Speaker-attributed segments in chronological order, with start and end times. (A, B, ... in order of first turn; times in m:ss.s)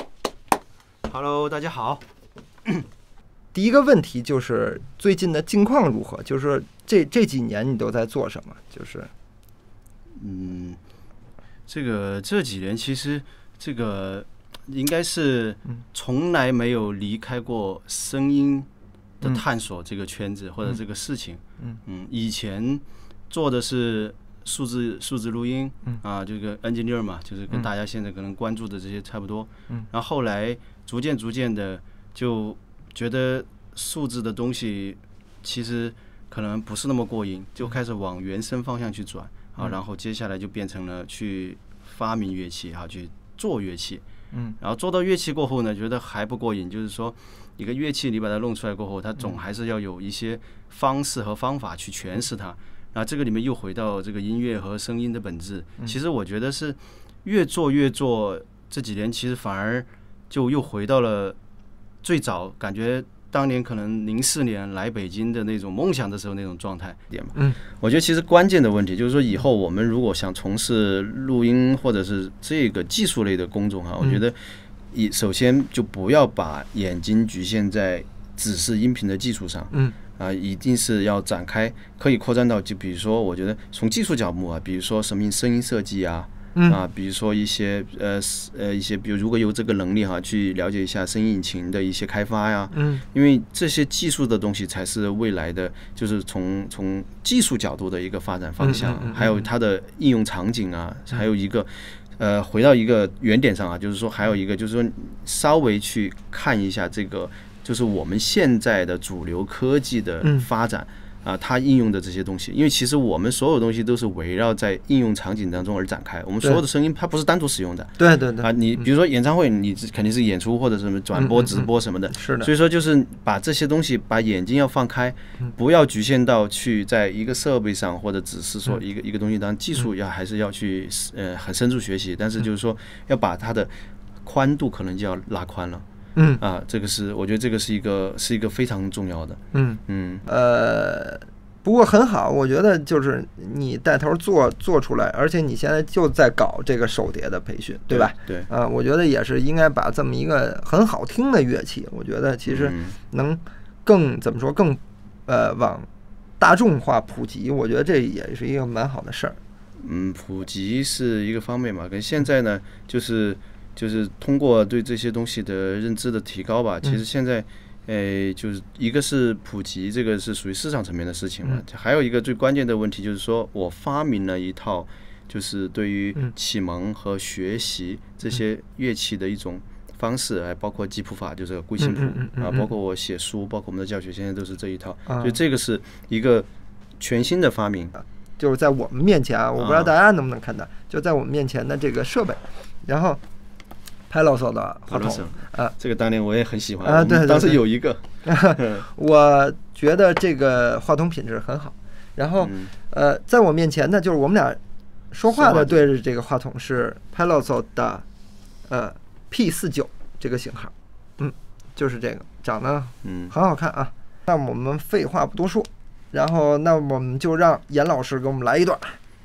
0:01.0-0:02.0 A
0:03.5-0:09.1 B
0:10.1-0:10.8 A
0:11.7-0:18.7 A
0:19.2-0:44.0 A
0:44.3-0:44.6 B
0:44.6-1:01.4 A
1:02.0-2:15.8 A
1:32.7-1:33.0 B
1:38.6-1:39.4 B
1:50.2-1:50.5 B
1:58.0-1:58.5 B
2:01.2-2:02.5 B
2:16.2-2:16.4 B
2:16.4-2:20.2 A
2:19.5-2:35.9 B
2:27.9-2:28.5 A
2:32.5-2:33.0 A
2:36.4-2:39.4 B
2:39.8-3:06.5 A
3:01.8-3:02.7 B
3:05.1-3:05.4 B
3:07.0-3:08.0 A
3:08.4-3:13.2 B
3:09.6-3:09.9 A
3:14.1-3:15.7 B
3:14.9-3:18.8 A
3:16.8-3:17.6 B
3:18.2-3:24.6 B
3:22.4-3:22.7 A
3:25.1-3:28.0 B
3:25.3-3:25.8 A
3:28.7-3:39.0 B
3:33.0-3:33.3 A